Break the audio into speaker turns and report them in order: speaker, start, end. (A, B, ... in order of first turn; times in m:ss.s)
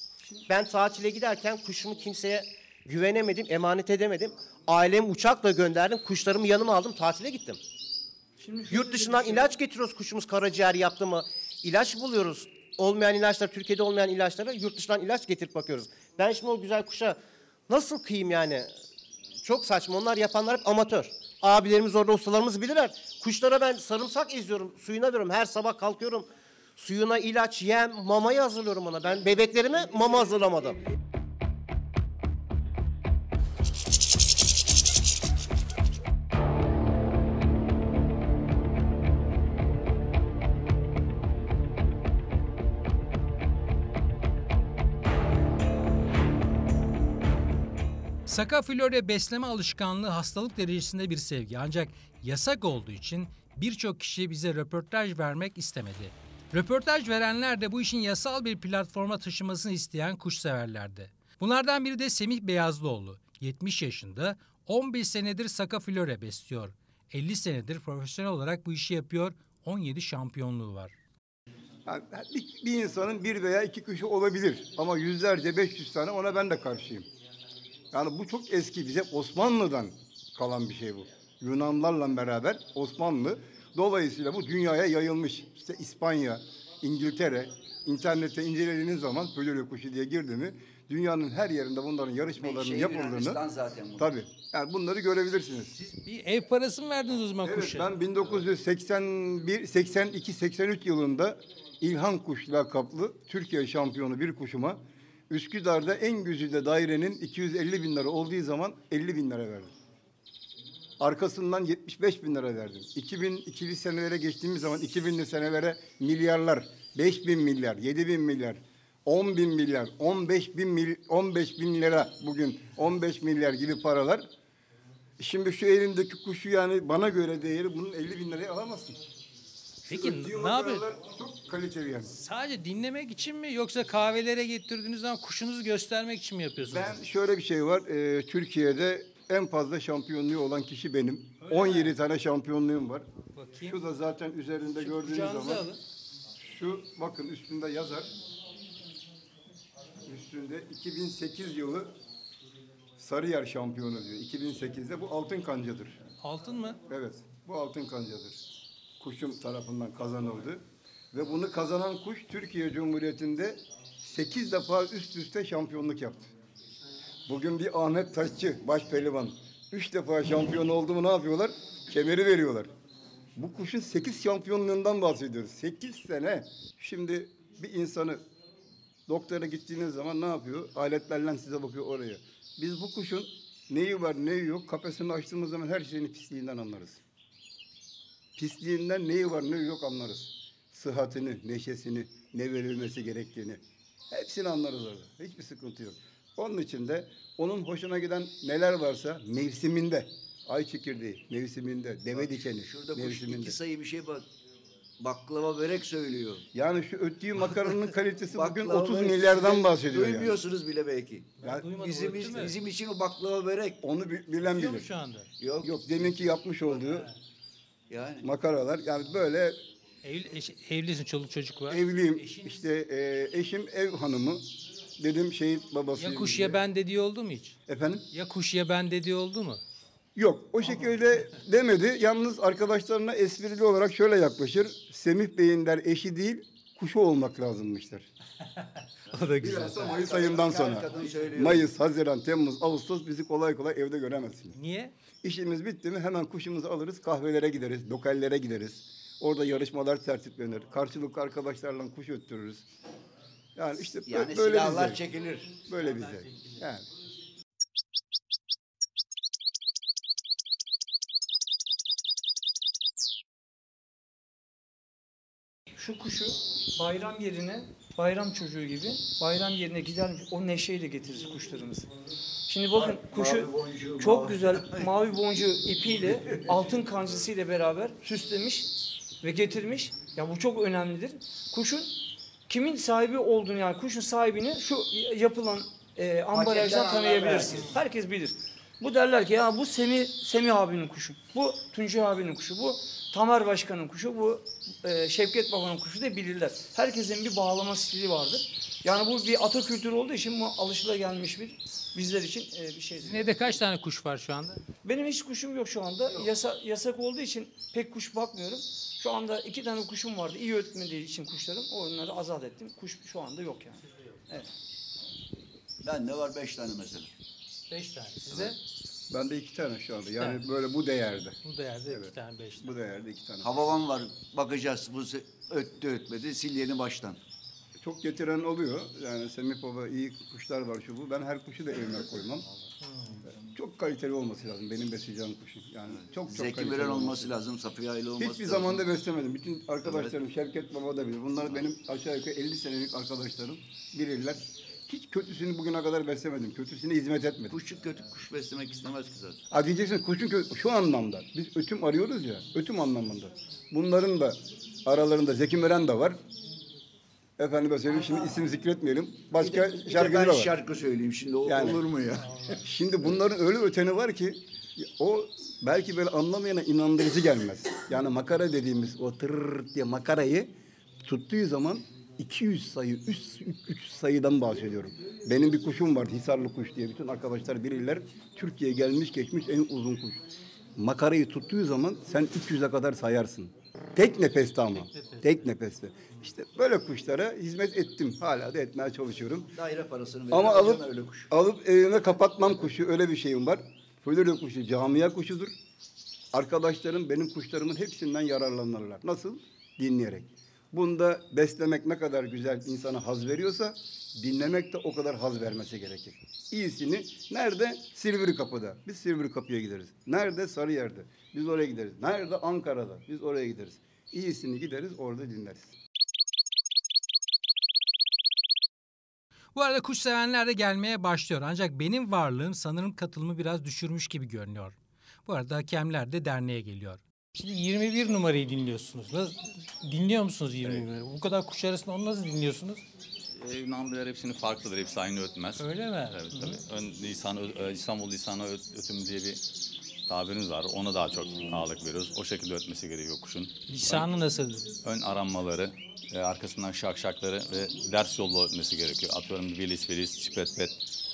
0:00.5-0:07.6 A
0:08.4-0:09.5 B
0:08.7-0:18.7 A
0:19.4-0:30.8 A
0:48.3-1:10.9 C
1:11.8-1:17.1 D
1:17.9-1:33.4 D
1:32.4-1:34.1 E
1:34.0-1:35.7 D
1:35.7-1:37.9 C
1:37.4-1:49.7 D
1:51.0-2:04.3 D
2:05.2-2:09.0 D
2:09.8-2:10.8 C
2:09.9-2:12.1 D
2:12.1-2:17.0 C
2:16.7-2:23.0 D
2:21.4-2:22.0 C
2:23.3-2:23.8 C
2:23.6-2:25.7 D
2:24.8-2:25.8 C
2:26.4-2:28.1 D
2:30.0-2:31.9 D
2:33.0-2:36.0 D
2:36.2-2:36.8 C
2:36.9-2:38.4 D
2:39.0-2:40.6 D
2:41.1-2:46.3 D
2:47.3-2:52.7 D
2:53.4-2:58.2 D
2:59.1-3:07.0 D
3:08.4-3:23.6 D
3:22.1-3:24.3 E
3:25.0-3:26.5 E
3:26.5-3:30.4 D
3:28.3-3:33.8 E
3:31.4-3:32.6 C
3:31.4-3:31.7 D
3:33.8-3:34.9 D
3:34.4-3:35.3 C
3:35.4-3:35.7 E
3:35.6-3:37.1 D
3:36.8-3:37.1 C
3:37.9-3:38.3 E
3:38.2-3:39.6 D
3:40.0-3:42.6 C
3:41.7-3:44.5 D
3:45.0-3:46.6 D
3:46.0-3:47.6 C
3:47.7-3:48.0 D
3:48.1-3:49.6 C
3:50.2-3:58.1 D
3:59.0-4:00.1 C
3:59.4-4:04.6 D
3:59.7-4:01.7 E
4:04.5-4:04.9 C
4:05.2-4:12.6 D
4:13.6-4:15.0 D
4:14.0-4:15.6 E
4:15.6-4:16.8 D
4:15.7-4:16.6 C
4:25.8-4:31.9 B
4:32.5-4:38.7 B
4:32.7-4:34.9 E
4:39.2-4:42.0 B
4:42.5-5:03.6 B
4:46.4-4:47.7 E
5:03.0-5:04.6 C
5:04.8-5:14.5 B
5:15.8-5:17.1 E
5:17.7-5:18.6 C
5:18.3-5:18.5 E
5:19.1-5:21.4 D
5:21.4-5:22.8 C
5:21.9-5:23.5 D
5:23.4-5:27.2 E
5:27.8-5:32.4 D
5:32.8-5:33.2 C
5:33.4-5:37.3 D
5:36.3-5:38.8 E
5:38.2-5:47.6 D
5:39.8-5:40.1 E
5:47.5-5:49.4 E
5:49.5-5:56.2 D
5:57.4-6:00.5 D
5:59.4-6:02.6 E
6:01.4-6:01.8 D
6:02.6-6:20.2 D
6:20.8-6:29.5 D
6:24.7-6:25.3 C
6:29.5-6:31.3 E
6:30.3-6:35.5 D
6:36.3-6:55.7 D
6:59.5-7:12.8 C
7:13.3-7:19.4 F
7:15.6-7:16.6 C
7:20.1-7:24.1 F
7:23.7-7:24.6 C
7:24.8-7:30.8 F